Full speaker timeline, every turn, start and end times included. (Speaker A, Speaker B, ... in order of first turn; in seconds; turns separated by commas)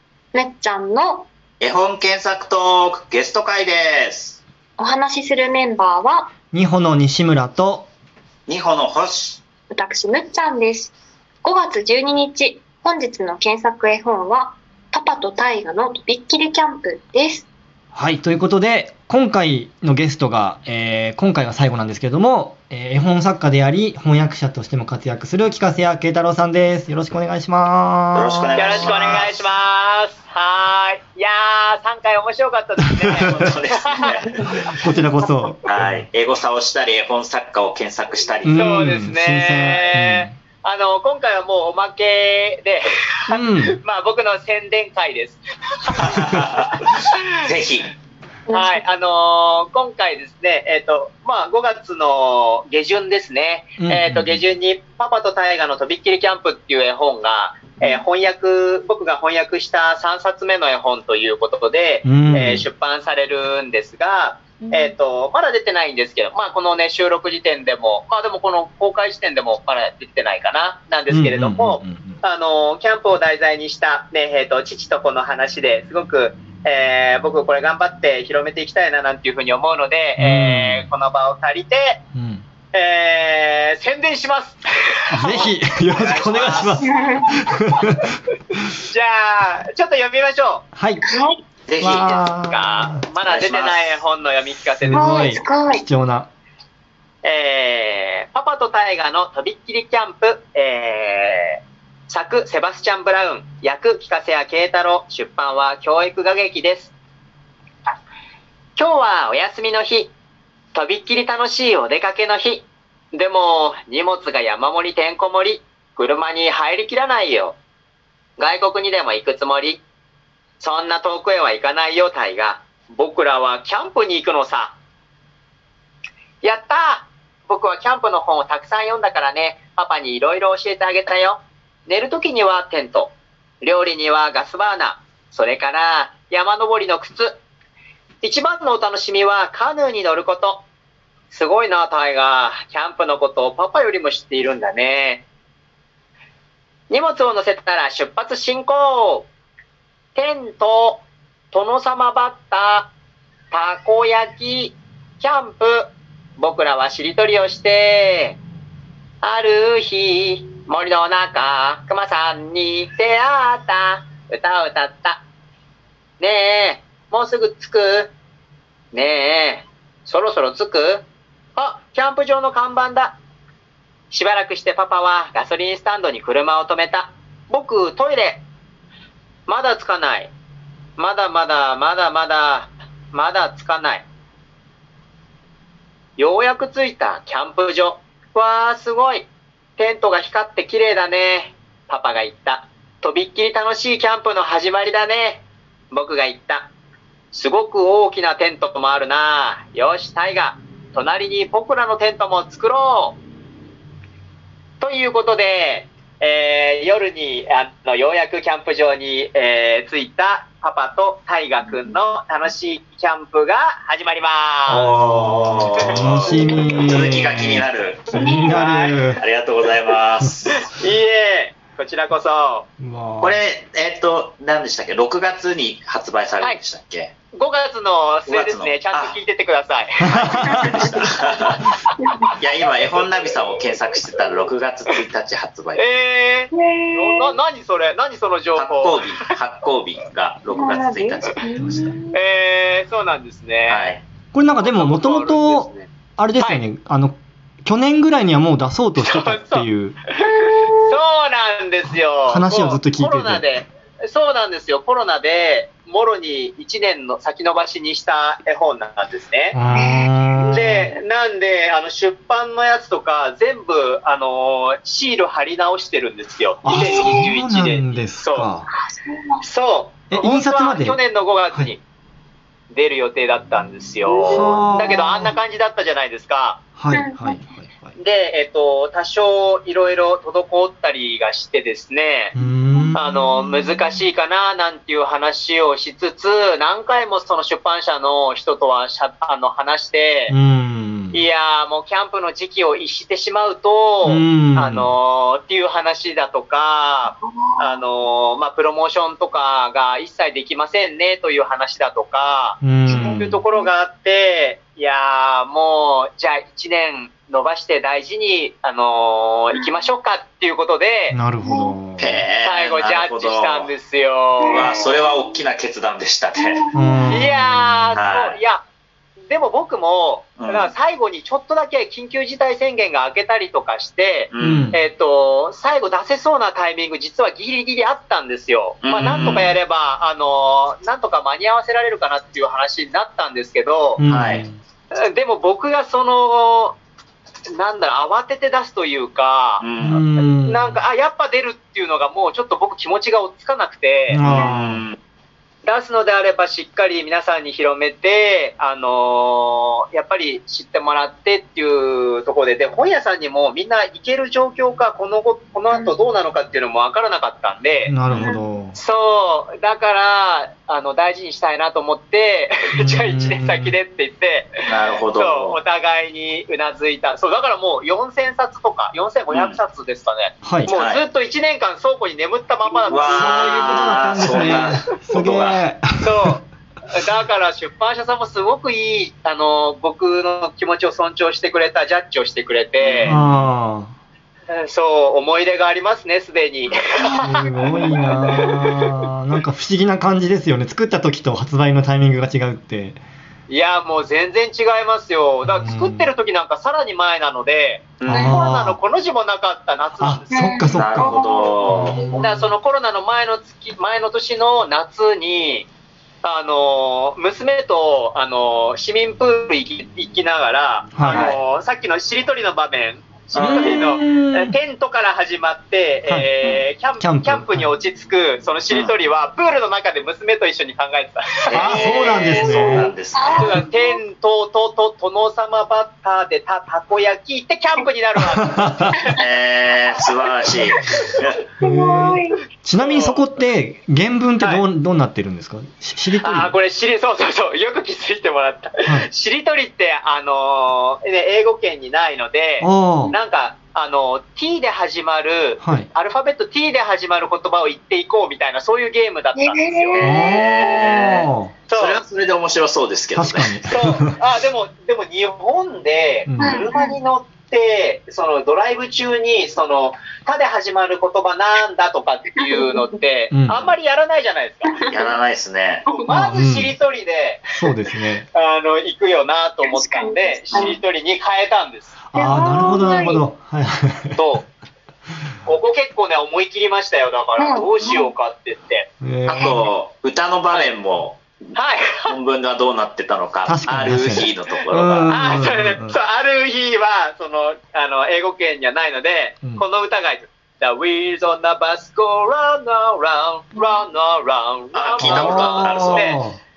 Speaker A: 0.3-1.3, Speaker B: 1.6-4.4, Speaker A: 4.8-6.3, Speaker C: 6.5-7.9, Speaker B: 8.5-9.4, Speaker A: 9.7-10.9, Speaker A: 11.4-17.4, Speaker C: 17.9-28.9, Speaker B: 28.1-29.4, Speaker D: 28.5-34.2, Speaker B: 33.2-34.7, Speaker C: 34.7-36.1, Speaker B: 35.6-38.8, Speaker C: 38.4-40.4, Speaker D: 38.5-46.4, Speaker C: 43.3-43.8, Speaker B: 46.0-47.9, Speaker A: 48.5-48.8, Speaker D: 48.5-82.0, Speaker C: 53.8-54.4, Speaker C: 62.0-62.6, Speaker C: 71.1-72.2, Speaker C: 80.2-80.9, Speaker C: 82.1-82.4, Speaker D: 82.7-86.9, Speaker C: 85.1-88.1, Speaker A: 86.8-87.3, Speaker D: 88.9-90.7, Speaker C: 90.7-91.0, Speaker A: 91.1-91.4, Speaker B: 91.7-92.1, Speaker C: 91.8-93.0, Speaker D: 91.8-95.4, Speaker B: 93.2-94.0, Speaker C: 94.8-96.3, Speaker A: 94.9-95.8, Speaker D: 97.2-106.9, Speaker D: 108.8-110.1, Speaker D: 110.7-117.6, Speaker D: 118.4-119.8, Speaker D: 120.6-124.8, Speaker D: 126.4-137.4, Speaker D: 138.2-140.7, Speaker D: 141.3-145.2, Speaker D: 146.9-149.3, Speaker D: 150.1-152.9, Speaker D: 153.5-158.4, Speaker D: 159.2-165.2, Speaker D: 166.2-168.1, Speaker D: 168.9-173.2, Speaker D: 174.1-178.4, Speaker D: 179.5-180.3, Speaker D: 181.0-184.1, Speaker D: 186.2-196.7, Speaker D: 197.3-203.2, Speaker D: 204.8-214.9, Speaker C: 214.7-219.2, Speaker B: 214.8-218.0, Speaker D: 215.9-216.5, Speaker A: 218.1-218.5, Speaker D: 218.2-219.2, Speaker B: 219.2-220.6, Speaker D: 220.4-222.7, Speaker C: 222.8-223.4, Speaker B: 223.2-227.1, Speaker D: 227.3-230.8, Speaker B: 228.3-229.2, Speaker B: 230.1-231.7, Speaker C: 230.1-230.9, Speaker B: 232.3-235.8, Speaker D: 235.8-239.2, Speaker A: 236.5-237.3, Speaker B: 238.6-241.5, Speaker A: 240.5-242.1, Speaker C: 241.6-242.0, Speaker D: 242.1-243.9, Speaker B: 243.7-244.0, Speaker C: 244.3-250.0, Speaker D: 244.6-245.9, Speaker D: 249.0-249.7, Speaker D: 250.2-259.6, Speaker C: 252.3-253.4, Speaker C: 259.5-260.9, Speaker A: 259.7-260.1, Speaker D: 260.4-268.5, Speaker C: 266.6-268.7, Speaker A: 266.7-267.2, Speaker A: 268.8-269.4, Speaker D: 269.4-271.8, Speaker C: 270.1-271.0, Speaker D: 272.7-276.6, Speaker C: 274.2-275.3, Speaker A: 274.3-274.5, Speaker C: 276.8-277.9, Speaker A: 276.9-277.4, Speaker D: 277.9-282.3, Speaker C: 282.3-283.9, Speaker D: 282.9-290.4, Speaker C: 290.3-291.2, Speaker D: 291.1-311.2, Speaker C: 294.0-294.9, Speaker A: 297.2-297.8, Speaker C: 302.6-303.4, Speaker A: 302.9-303.7, Speaker C: 311.1-312.2, Speaker A: 311.4-311.7, Speaker B: 312.0-313.7, Speaker D: 312.4-314.8, Speaker A: 314.4-315.3, Speaker B: 314.4-316.6, Speaker A: 316.4-317.2, Speaker C: 316.7-317.9, Speaker D: 317.1-318.6, Speaker B: 317.9-318.4, Speaker D: 319.2-334.0, Speaker B: 320.4-320.7, Speaker B: 324.3-324.7, Speaker C: 324.4-324.8, Speaker B: 328.8-329.5, Speaker C: 334.0-334.6, Speaker B: 334.1-334.4, Speaker D: 335.0-336.8, Speaker D: 337.5-344.2, Speaker B: 339.6-340.0, Speaker C: 339.8-340.8, Speaker C: 344.1-344.8, Speaker B: 344.2-345.0, Speaker D: 345.6-358.0, Speaker C: 357.9-358.7, Speaker D: 358.7-374.8, Speaker C: 362.8-363.8, Speaker B: 364.7-365.6, Speaker B: 369.3-369.6, Speaker C: 370.4-370.7, Speaker B: 370.7-371.0, Speaker B: 372.9-375.6, Speaker C: 373.1-376.3, Speaker D: 376.0-383.1, Speaker B: 382.8-383.5, Speaker C: 383.1-383.9, Speaker D: 384.5-388.9, Speaker C: 387.1-393.0, Speaker D: 393.5-400.7, Speaker C: 395.4-396.1, Speaker B: 398.0-398.3, Speaker A: 398.1-398.4, Speaker C: 398.1-398.8, Speaker C: 400.0-402.5, Speaker A: 400.3-401.6, Speaker B: 400.7-402.0, Speaker D: 402.1-405.7, Speaker D: 406.2-429.2, Speaker C: 410.9-411.3, Speaker B: 411.1-411.4, Speaker B: 413.3-413.8, Speaker C: 413.4-414.5, Speaker C: 416.1-416.3, Speaker C: 417.0-417.7, Speaker B: 421.5-423.6, Speaker C: 421.5-422.9, Speaker A: 422.5-423.9, Speaker C: 428.6-428.9, Speaker B: 429.1-431.4, Speaker C: 431.6-436.5, Speaker A: 431.6-432.4, Speaker D: 432.8-433.2, Speaker D: 434.4-434.6, Speaker D: 436.2-450.0, Speaker C: 442.6-443.1, Speaker C: 445.6-445.9, Speaker A: 449.4-450.9, Speaker B: 449.9-453.6, Speaker C: 450.0-451.5, Speaker D: 451.7-452.0, Speaker C: 453.1-454.1, Speaker D: 453.6-464.9, Speaker C: 456.3-456.7, Speaker A: 456.4-457.0, Speaker A: 462.4-462.8, Speaker C: 463.3-463.6, Speaker A: 464.7-465.0, Speaker B: 464.9-465.8, Speaker A: 465.9-466.1, Speaker D: 465.9-467.6, Speaker C: 466.1-466.7, Speaker C: 467.5-468.2, Speaker D: 468.3-473.1, Speaker A: 469.6-470.8, Speaker C: 472.1-474.2, Speaker A: 472.1-473.2, Speaker D: 474.1-474.5, Speaker D: 475.4-478.9, Speaker A: 477.4-478.1, Speaker C: 479.0-479.6, Speaker B: 479.3-481.2, Speaker D: 481.5-482.1, Speaker B: 482.1-485.2, Speaker C: 483.4-485.9, Speaker D: 485.1-496.2, Speaker B: 494.7-496.1, Speaker C: 495.0-496.4